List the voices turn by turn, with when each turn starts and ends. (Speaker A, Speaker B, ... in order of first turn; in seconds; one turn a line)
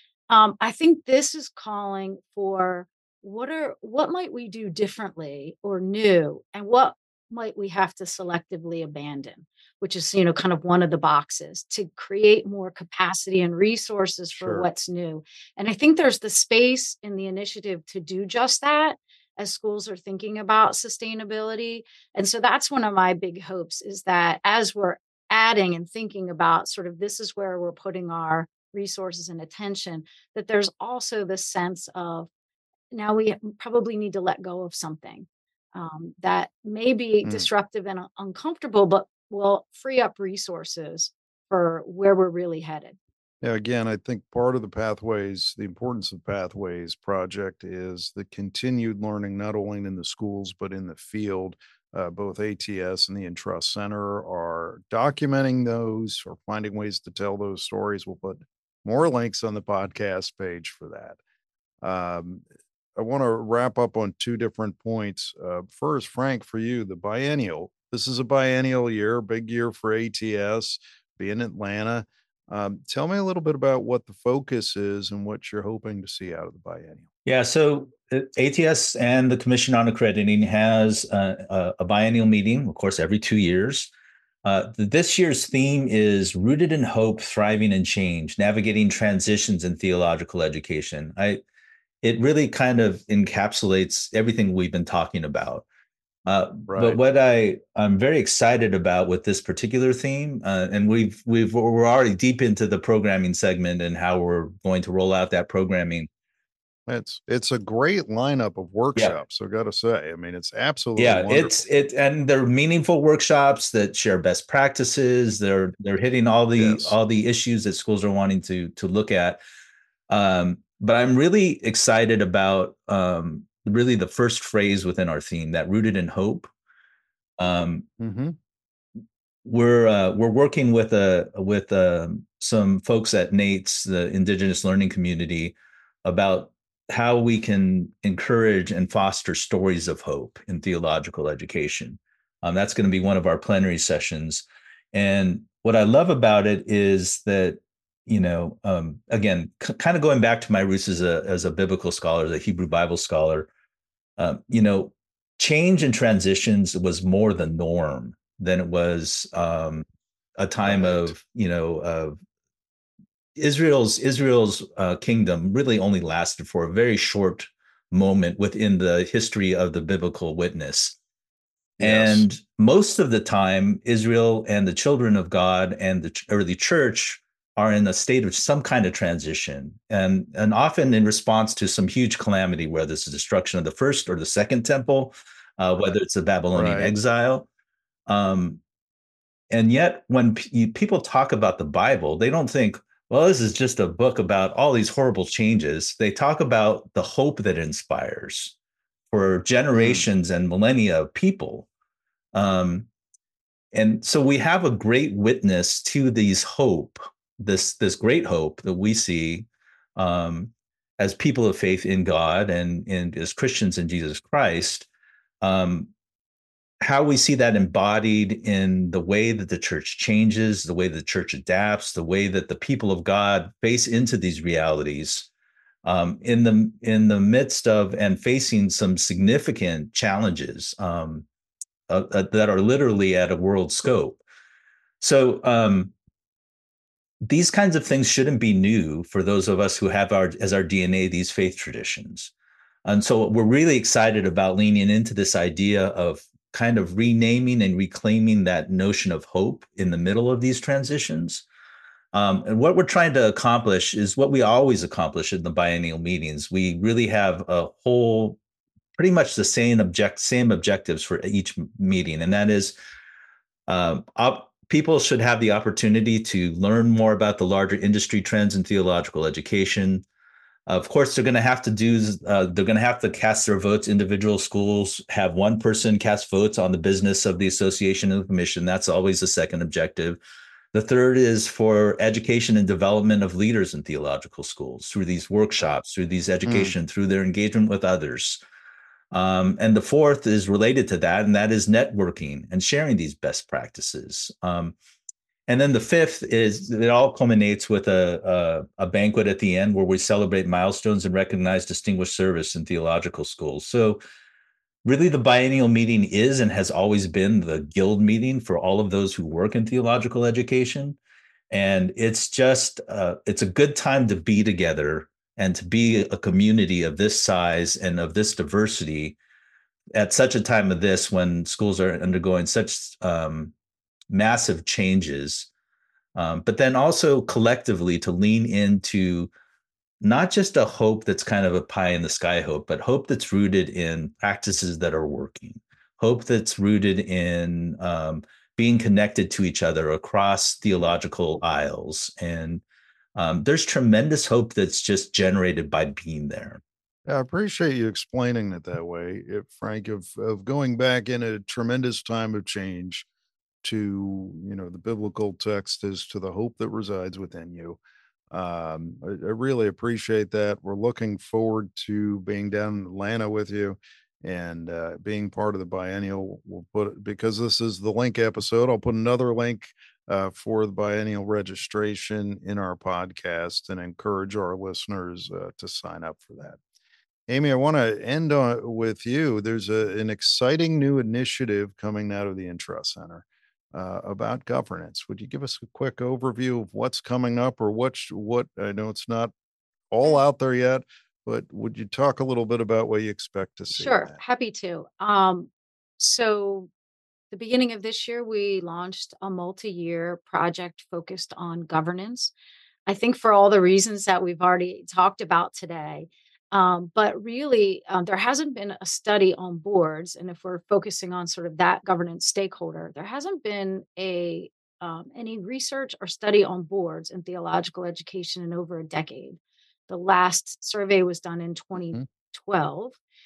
Speaker A: 0.3-32.3
Speaker B: 14.4-14.7
Speaker A: 32.9-43.0
Speaker B: 43.4-61.2
Speaker B: 61.8-77.1
Speaker C: 77.3-83.9
Speaker C: 84.4-91.4
Speaker C: 92.0-95.7
Speaker C: 96.3-106.1
Speaker B: 96.7-97.0
Speaker B: 106.9-111.6
Speaker C: 111.0-119.4
Speaker B: 116.6-117.0
Speaker C: 120.1-126.5
Speaker C: 127.4-127.9
Speaker B: 128.0-128.4
Speaker C: 129.4-153.5
Speaker C: 154.2-159.9
Speaker C: 160.4-162.2
Speaker B: 160.6-161.1
Speaker C: 163.4-171.0
Speaker B: 171.8-172.2
Speaker C: 171.8-187.5
Speaker B: 186.6-186.9
Speaker C: 188.1-188.6
Speaker C: 189.5-198.6
Speaker C: 199.1-201.7
Speaker B: 199.8-200.1
Speaker C: 202.3-202.9
Speaker C: 203.7-214.9
Speaker C: 215.4-215.9
Speaker C: 216.8-225.3
Speaker C: 225.8-231.3
Speaker C: 231.9-234.2
Speaker C: 235.0-235.9
Speaker C: 237.2-242.3
Speaker C: 242.8-251.4
Speaker C: 252.1-258.4
Speaker C: 259.0-262.8
Speaker C: 263.7-270.1
Speaker C: 270.7-280.2
Speaker C: 280.7-288.4
Speaker B: 286.5-286.7
Speaker C: 289.1-294.8
Speaker C: 295.5-304.0
Speaker C: 304.9-311.0
Speaker C: 311.5-319.2
Speaker C: 319.9-323.5
Speaker C: 324.1-325.5
Speaker C: 326.1-329.3
Speaker C: 330.0-342.6
Speaker C: 343.1-346.6
Speaker B: 347.1-353.1
Speaker B: 353.6-357.8
Speaker B: 358.3-376.6
Speaker B: 377.3-389.3
Speaker B: 389.9-394.2
Speaker A: 393.7-396.7
Speaker A: 397.3-402.3
Speaker A: 402.9-423.0